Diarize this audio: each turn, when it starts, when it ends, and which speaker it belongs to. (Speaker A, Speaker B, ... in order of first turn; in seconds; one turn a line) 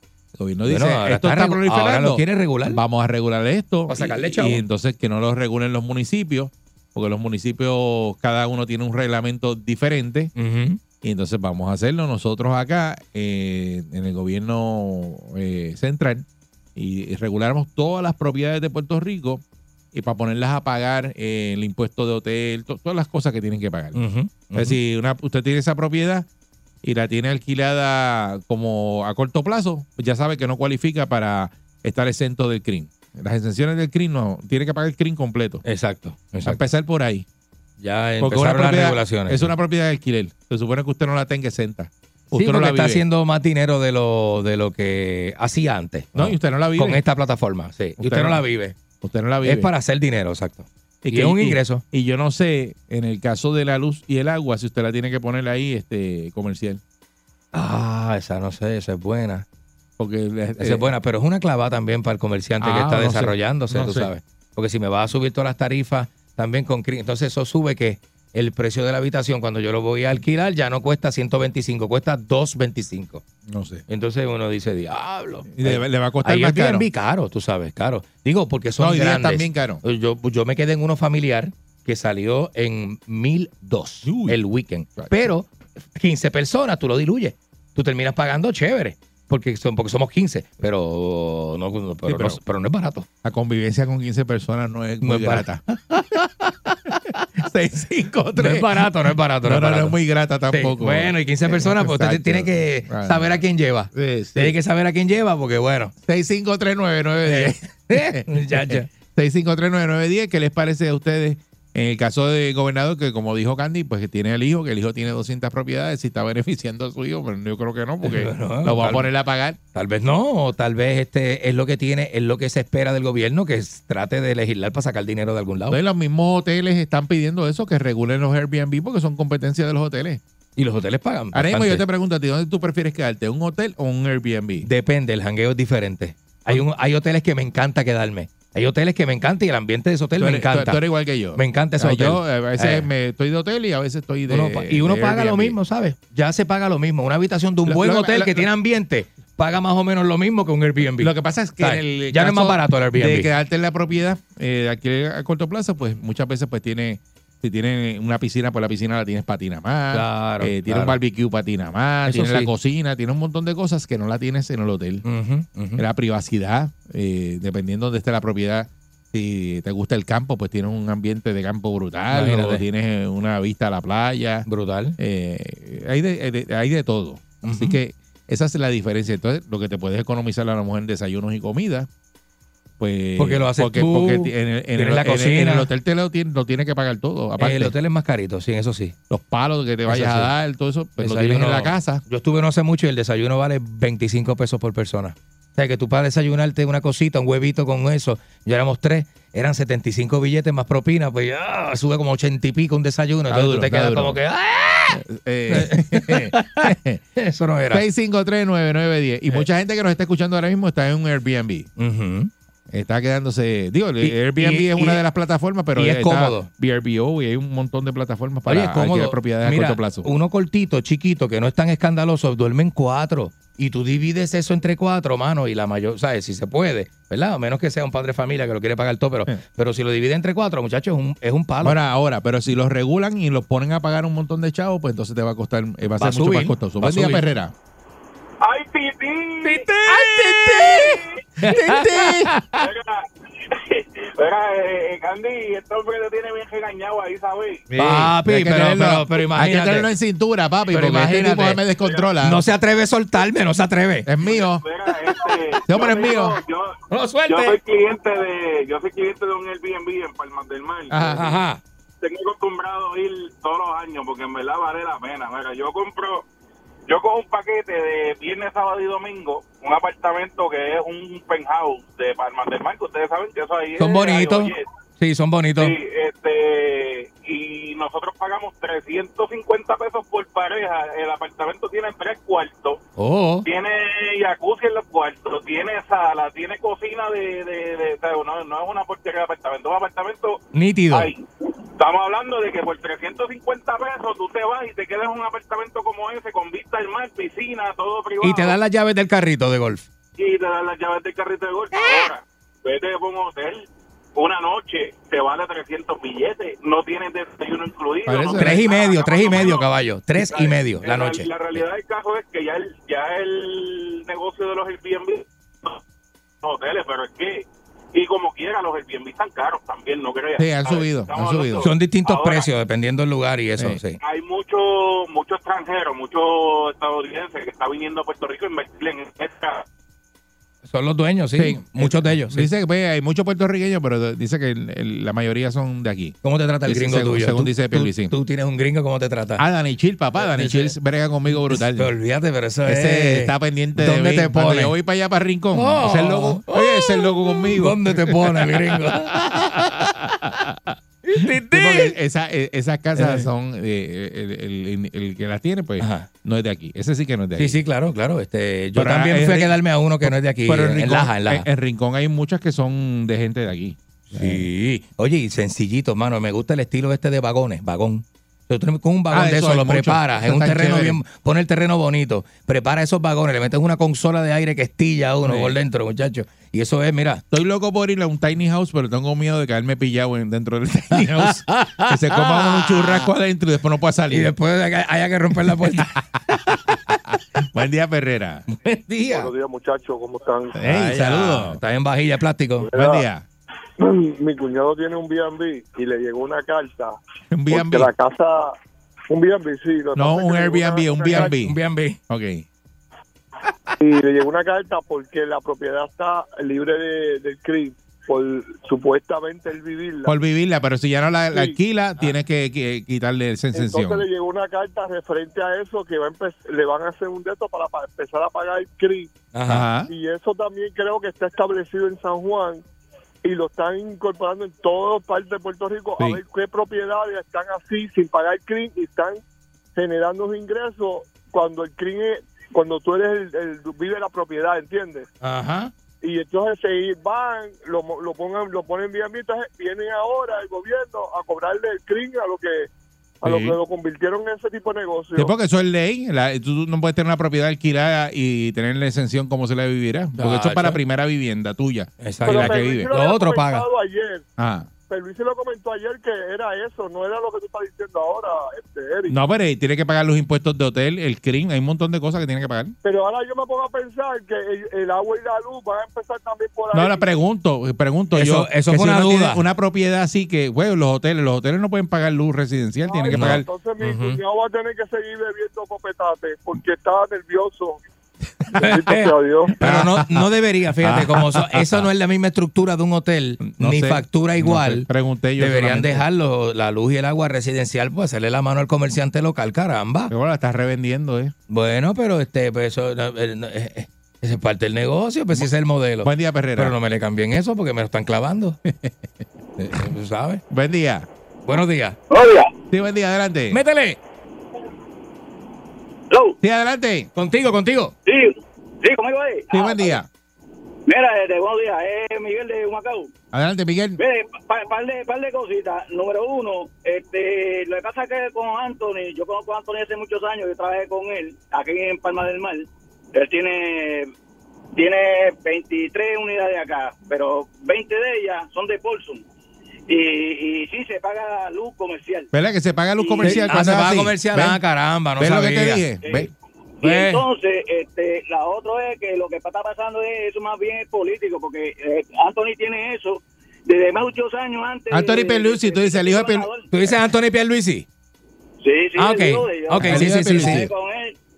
Speaker A: 0.4-10.3
Speaker B: 0.7-2.8
Speaker B: 3.9-4.6
Speaker B: 10.3-10.8
Speaker A: 11.0-19.4
Speaker A: 19.9-24.0
Speaker B: 23.9-24.8
Speaker A: 24.5-26.3
Speaker A: 26.8-35.6
Speaker B: 35.6-36.6
Speaker A: 36.4-37.2
Speaker B: 37.8-39.5
Speaker A: 38.2-43.0
Speaker B: 42.3-48.7
Speaker A: 46.1-47.0
Speaker A: 48.0-48.4
Speaker A: 49.0-49.7
Speaker B: 49.4-51.8
Speaker A: 51.0-56.8
Speaker B: 57.5-59.4
Speaker A: 60.0-60.9
Speaker B: 60.6-73.2
Speaker A: 62.6-64.1
Speaker A: 73.5-73.8
Speaker B: 73.9-93.0
Speaker A: 75.5-76.9
Speaker A: 78.8-79.8
Speaker A: 84.0-84.4
Speaker A: 92.0-92.4
Speaker A: 93.2-95.6
Speaker B: 95.0-95.5
Speaker A: 96.9-98.9
Speaker B: 98.4-100.0
Speaker A: 99.4-103.4
Speaker B: 100.5-105.9
Speaker A: 103.9-104.5
Speaker A: 106.0-119.6
Speaker B: 107.3-108.9
Speaker B: 118.0-119.1
Speaker B: 119.7-125.8
Speaker A: 125.7-130.2
Speaker B: 130.6-131.8
Speaker A: 131.3-134.7
Speaker B: 134.6-140.8
Speaker A: 140.2-145.6
Speaker B: 141.3-142.9
Speaker B: 144.3-153.3
Speaker A: 147.7-148.5
Speaker A: 151.0-165.0
Speaker B: 159.9-161.0
Speaker B: 162.1-162.5
Speaker B: 165.0-165.8
Speaker A: 165.8-174.4
Speaker B: 172.1-172.6
Speaker B: 174.5-174.9
Speaker A: 175.0-181.9
Speaker B: 177.4-177.8
Speaker A: 182.8-187.7
Speaker B: 183.2-185.7
Speaker B: 187.4-188.9
Speaker A: 189.1-192.0
Speaker B: 189.9-190.3
Speaker B: 191.0-207.8
Speaker A: 203.3-204.2
Speaker A: 204.9-207.0
Speaker A: 207.7-211.7
Speaker B: 211.8-212.3
Speaker A: 212.7-220.1
Speaker B: 214.0-215.0
Speaker B: 215.8-216.5
Speaker B: 218.5-231.8
Speaker A: 231.6-237.5
Speaker B: 236.0-237.2
Speaker C: 238.4-239.7
Speaker B: 239.4-242.7
Speaker A: 240.0-240.8
Speaker A: 241.4-242.3
Speaker C: 242.6-247.7
Speaker A: 247.7-252.4
Speaker B: 247.7-249.9
Speaker B: 250.7-251.6
Speaker B: 252.2-254.1
Speaker A: 254.1-254.6
Speaker C: 254.4-261.2
Speaker A: 255.7-256.4
Speaker B: 256.9-257.6
Speaker A: 260.9-261.3
Speaker B: 261.1-261.6
Speaker C: 262.0-266.2
Speaker C: 266.9-274.6
Speaker B: 273.8-275.8
Speaker C: 275.6-282.8
Speaker B: 283.0-283.4
Speaker C: 283.4-291.2
Speaker B: 290.5-291.1
Speaker C: 291.8-298.6
Speaker B: 298.2-299.9
Speaker C: 300.2-315.8
Speaker B: 301.8-302.1
Speaker A: 308.1-308.6
Speaker B: 308.3-311.6
Speaker C: 316.4-322.5
Speaker A: 320.4-321.7
Speaker B: 321.6-324.0
Speaker C: 324.0-329.6
Speaker B: 330.7-332.5
Speaker A: 331.4-338.1
Speaker B: 336.2-339.4
Speaker A: 339.4-341.9
Speaker B: 340.2-340.7
Speaker B: 341.3-344.7
Speaker A: 342.6-357.6
Speaker B: 345.5-349.2
Speaker B: 351.0-351.9
Speaker B: 352.9-353.3
Speaker B: 355.8-356.1
Speaker B: 357.4-361.4
Speaker A: 358.7-364.5
Speaker B: 364.1-377.2
Speaker A: 369.1-371.0
Speaker A: 375.2-375.6
Speaker A: 377.3-384.3
Speaker B: 380.9-383.1
Speaker B: 384.1-386.0
Speaker A: 385.6-388.4
Speaker B: 388.5-389.3
Speaker D: 389.1-390.6
Speaker A: 390.5-391.6
Speaker B: 390.6-392.7
Speaker D: 392.6-393.1
Speaker A: 392.7-393.2
Speaker D: 393.8-397.0
Speaker A: 397.3-397.9
Speaker D: 397.5-398.5
Speaker D: 399.1-401.3
Speaker A: 399.9-401.6
Speaker B: 401.0-402.0
Speaker A: 402.1-402.4
Speaker D: 403.8-410.1
Speaker A: 410.0-414.0
Speaker D: 411.3-411.6
Speaker D: 413.5-419.1
Speaker B: 419.3-419.7
Speaker A: 419.5-419.9
Speaker D: 419.9-422.6
Speaker D: 423.2-429.2
Speaker D: 429.7-435.1
Speaker B: 435.2-435.7
Speaker D: 436.0-442.7
Speaker D: 443.2-445.3
Speaker A: 443.2-443.6
Speaker A: 445.1-452.9
Speaker B: 450.2-450.8
Speaker B: 452.0-453.6
Speaker D: 452.2-454.2
Speaker A: 454.4-454.7
Speaker D: 454.9-459.2
Speaker A: 459.1-462.7
Speaker D: 462.8-467.1
Speaker A: 466.7-473.4
Speaker B: 468.1-469.4
Speaker D: 472.8-477.8
Speaker B: 473.1-474.2
Speaker B: 478.5-484.9
Speaker D: 478.5-479.6
Speaker A: 479.6-480.2
Speaker A: 480.8-481.9
Speaker A: 483.6-486.0
Speaker B: 485.4-490.1
Speaker A: 490.1-491.3
Speaker B: 491.5-498.6
Speaker A: 496.0-496.7
Speaker A: 498.7-498.9
Speaker B: 499.6-500.4
Speaker A: 500.5-501.1
Speaker B: 501.4-502.0
Speaker E: 502.1-502.5
Speaker A: 502.7-503.6
Speaker B: 503.5-504.0
Speaker E: 506.1-506.4
Speaker A: 506.4-507.1
Speaker B: 507.1-507.9
Speaker E: 508.1-510.0
Speaker A: 509.5-510.1
Speaker E: 510.9-513.1
Speaker A: 513.3-514.0
Speaker E: 514.0-524.1
Speaker E: 524.7-529.2
Speaker E: 529.9-532.3
Speaker A: 532.3-534.6
Speaker E: 533.0-533.6
Speaker B: 533.2-535.9
Speaker A: 535.2-536.3
Speaker E: 536.0-536.3
Speaker B: 536.8-537.2
Speaker E: 536.8-546.7
Speaker A: 544.9-546.5
Speaker B: 546.7-547.9
Speaker E: 548.6-551.1
Speaker B: 548.9-550.7
Speaker A: 549.8-550.7